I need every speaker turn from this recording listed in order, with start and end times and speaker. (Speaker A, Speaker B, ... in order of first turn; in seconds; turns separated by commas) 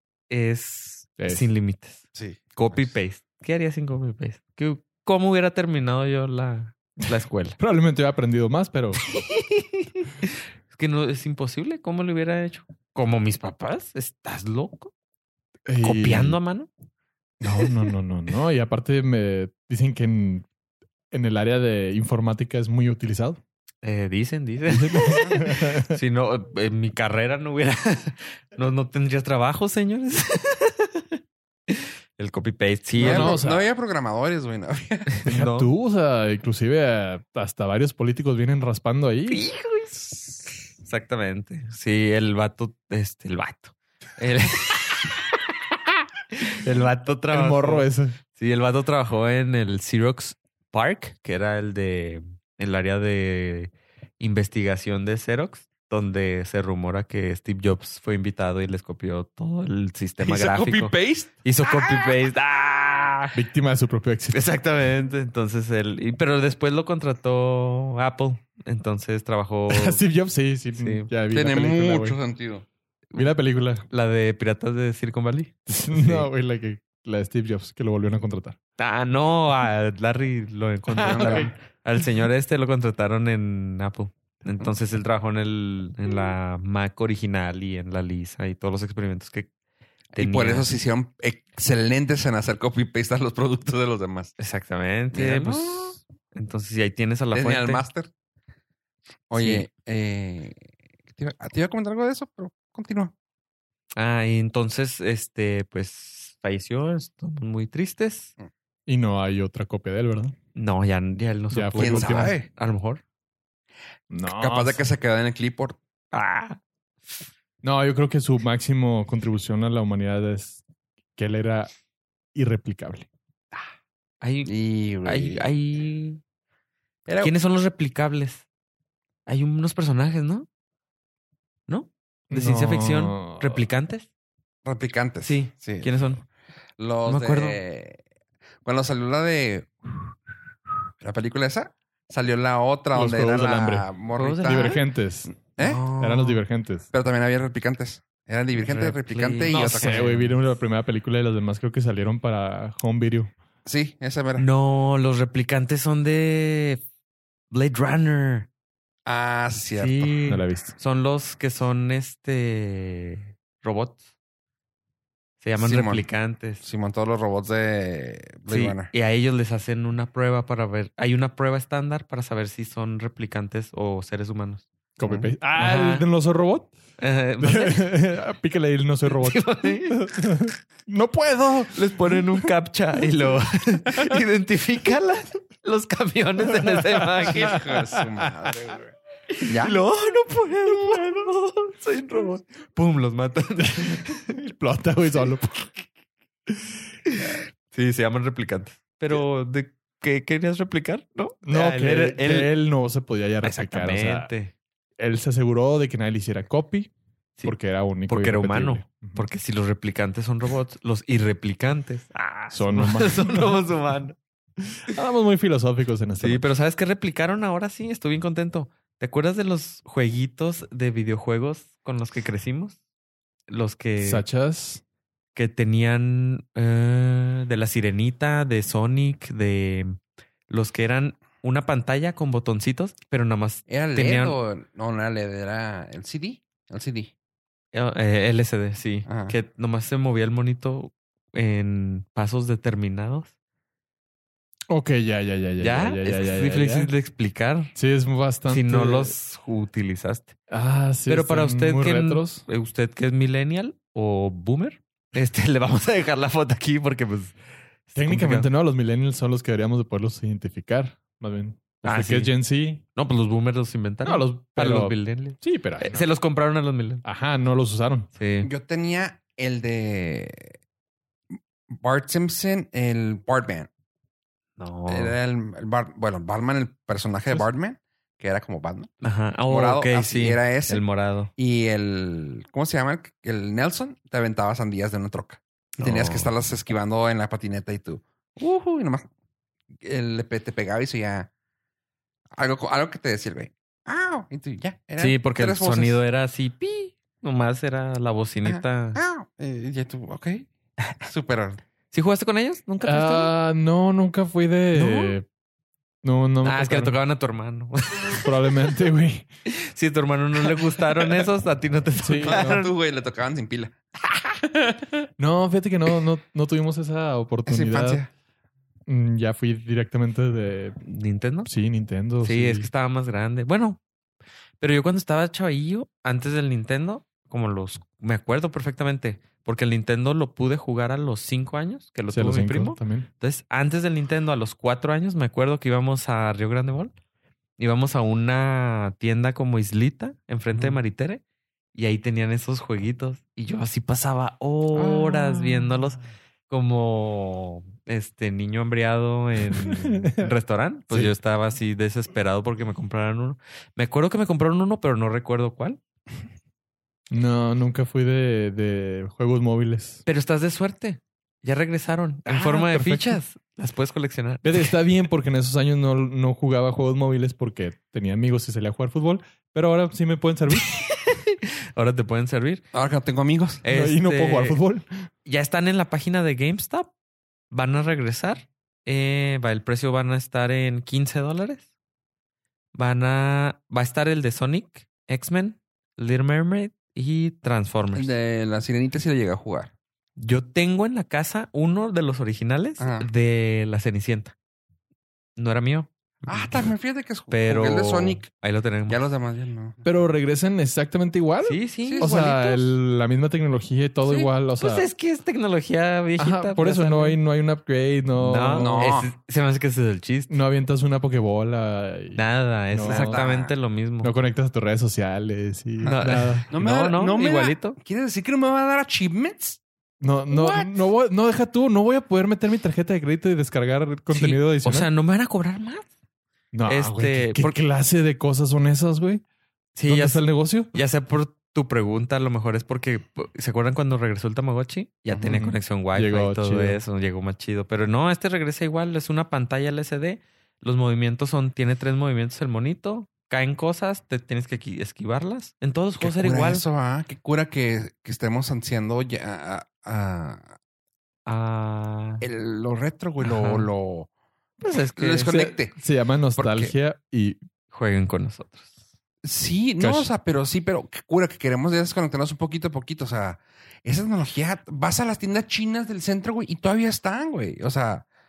Speaker A: 0.3-7.6, Speaker B: 1.2-1.5, Speaker C: 2.1-2.8, Speaker B: 7.6-9.0, Speaker A: 8.9-14.9, Speaker B: 15.7-16.4, Speaker A: 15.8-16.7, Speaker B: 17.4-20.4, Speaker B: 21.1-23.4, Speaker A: 23.8-33.4, Speaker B: 24.7-26.0, Speaker C: 25.1-25.4, Speaker C: 33.0-35.1, Speaker B: 33.0-33.6, Speaker A: 35.1-35.7, Speaker B: 35.3-39.4, Speaker A: 39.3-45.1, Speaker A: 46.3-63.3, Speaker B: 46.6-48.2, Speaker C: 60.2-62.2, Speaker B: 63.3-64.4, Speaker A: 64.3-70.0, Speaker B: 69.7-72.2, Speaker A: 70.8-71.1, Speaker C: 71.3-72.6, Speaker B: 73.2-73.9, Speaker A: 73.9-76.3, Speaker B: 75.7-78.6, Speaker A: 78.8-89.5, Speaker C: 81.0-81.5, Speaker B: 81.0-81.5, Speaker A: 90.1-90.7, Speaker C: 90.2-94.4, Speaker A: 94.4-97.8, Speaker C: 95.1-96.0, Speaker C: 97.3-98.1, Speaker C: 99.3-100.6, Speaker A: 99.3-99.7, Speaker C: 101.1-103.1, Speaker A: 104.0-108.3, Speaker B: 108.9-110.3, Speaker A: 110.5-113.0, Speaker B: 111.5-112.3, Speaker C: 111.8-112.5, Speaker B: 114.1-114.9, Speaker C: 114.3-115.8, Speaker A: 116.1-116.6, Speaker B: 117.6-120.6, Speaker B: 121.2-121.7, Speaker B: 122.3-123.1, Speaker A: 124.2-124.5, Speaker C: 124.5-125.5, Speaker A: 125.0-126.2, Speaker C: 127.0-127.3, Speaker A: 127.2-128.4, Speaker A: 129.3-130.5, Speaker A: 131.7-134.1, Speaker B: 132.3-133.6, Speaker C: 134.6-136.0, Speaker A: 135.2-136.2, Speaker C: 136.8-138.0, Speaker A: 137.1-137.6, Speaker C: 138.6-139.7, Speaker C: 141.0-144.8, Speaker B: 142.9-143.9, Speaker A: 144.2-144.8, Speaker B: 144.4-145.3, Speaker C: 145.4-145.8, Speaker A: 145.6-146.4, Speaker B: 146.0-146.9, Speaker C: 146.9-150.2, Speaker A: 148.6-150.3, Speaker B: 149.5-153.3, Speaker C: 153.6-154.5, Speaker A: 154.4-156.8, Speaker A: 157.5-158.5, Speaker C: 159.1-160.1, Speaker A: 159.8-164.0, Speaker B: 160.3-160.7, Speaker A: 165.4-166.6, Speaker C: 165.6-166.1, Speaker C: 166.6-168.9, Speaker A: 168.5-176.1, Speaker B: 175.0-176.7, Speaker A: 177.0-177.9, Speaker B: 177.4-182.5, Speaker A: 179.1-180.1, Speaker A: 181.7-187.6, Speaker B: 186.5-188.5, Speaker C: 187.2-188.9, Speaker A: 189.4-194.4, Speaker C: 189.4-189.8, Speaker B: 194.3-195.8, Speaker A: 197.1-202.5, Speaker B: 201.4-204.3, Speaker A: 203.4-204.5, Speaker B: 205.0-206.9, Speaker B: 207.4-209.3, Speaker A: 208.1-214.2, Speaker B: 212.5-213.6, Speaker B: 214.9-216.4, Speaker A: 216.2-222.8, Speaker A: 223.5-224.2, Speaker B: 224.0-224.8, Speaker A: 225.3-234.4, Speaker C: 233.7-237.1, Speaker A: 237.7-243.3, Speaker C: 239.1-239.3, Speaker B: 244.7-246.9, Speaker A: 245.6-247.7, Speaker B: 247.7-249.1, Speaker A: 248.5-250.4, Speaker B: 250.5-252.4, Speaker A: 251.1-257.3, Speaker A: 257.9-258.5, Speaker B: 257.9-262.8, Speaker A: 261.8-262.3, Speaker A: 262.9-267.0, Speaker B: 264.0-266.1, Speaker B: 267.0-268.1, Speaker A: 268.1-268.5, Speaker C: 268.4-270.5, Speaker C: 271.7-273.7, Speaker A: 274.6-275.1, Speaker C: 274.9-278.9, Speaker A: 279.0-281.3, Speaker C: 279.5-280.8, Speaker C: 281.4-289.1, Speaker A: 285.8-286.3, Speaker C: 289.8-291.3, Speaker C: 292.4-296.0, Speaker A: 295.0-299.0, Speaker C: 298.4-301.6, Speaker A: 301.9-303.3, Speaker B: 302.8-305.3, Speaker A: 304.7-305.1, Speaker B: 306.0-306.9, Speaker A: 306.4-308.3, Speaker B: 308.2-309.3, Speaker A: 309.4-312.7, Speaker B: 312.0-312.6, Speaker C: 312.2-315.1, Speaker B: 315.2-318.0, Speaker C: 317.5-318.1, Speaker B: 318.9-320.8, Speaker A: 320.8-321.5, Speaker B: 321.4-322.7, Speaker A: 322.2-323.8, Speaker A: 324.6-336.9, Speaker B: 332.1-333.1, Speaker A: 337.6-341.2, Speaker A: 341.7-355.8, Speaker C: 344.7-345.8, Speaker B: 349.6-350.3, Speaker B: 357.1-360.0, Speaker A: 360.1-364.8, Speaker B: 362.3-363.2, Speaker B: 364.4-370.7, Speaker A: 370.5-372.6, Speaker C: 372.7-373.6, Speaker A: 373.6-374.6, Speaker B: 373.7-374.9, Speaker A: 375.2-376.9, Speaker A: 377.5-381.6, Speaker A: 382.7-388.1, Speaker C: 387.9-389.7, Speaker A: 390.2-394.3, Speaker C: 392.8-393.1, Speaker A: 395.4-396.5, Speaker C: 396.3-398.3, Speaker A: 397.3-399.0, Speaker C: 398.9-399.8, Speaker B: 399.8-404.9, Speaker A: 401.4-402.6, Speaker C: 401.9-402.2, Speaker A: 404.6-407.2, Speaker B: 406.2-408.9, Speaker A: 408.2-410.4, Speaker C: 408.6-409.1, Speaker B: 410.3-413.2, Speaker A: 412.1-414.1, Speaker C: 412.9-413.6, Speaker B: 414.0-416.5, Speaker C: 415.8-419.6, Speaker A: 415.8-417.8, Speaker B: 420.0-424.9, Speaker C: 420.3-420.7, Speaker A: 424.1-425.9, Speaker B: 426.5-429.2, Speaker A: 426.7-427.5, Speaker A: 429.7-446.6, Speaker B: 429.9-430.7, Speaker B: 435.2-436.8, Speaker C: 446.0-450.5, Speaker A: 451.3-452.2, Speaker C: 452.2-454.1, Speaker A: 453.2-453.7, Speaker A: 454.6-455.3, Speaker C: 454.9-455.7, Speaker B: 455.3-457.4, Speaker C: 456.4-456.7, Speaker A: 457.7-458.7, Speaker C: 459.2-468.1, Speaker B: 459.8-460.1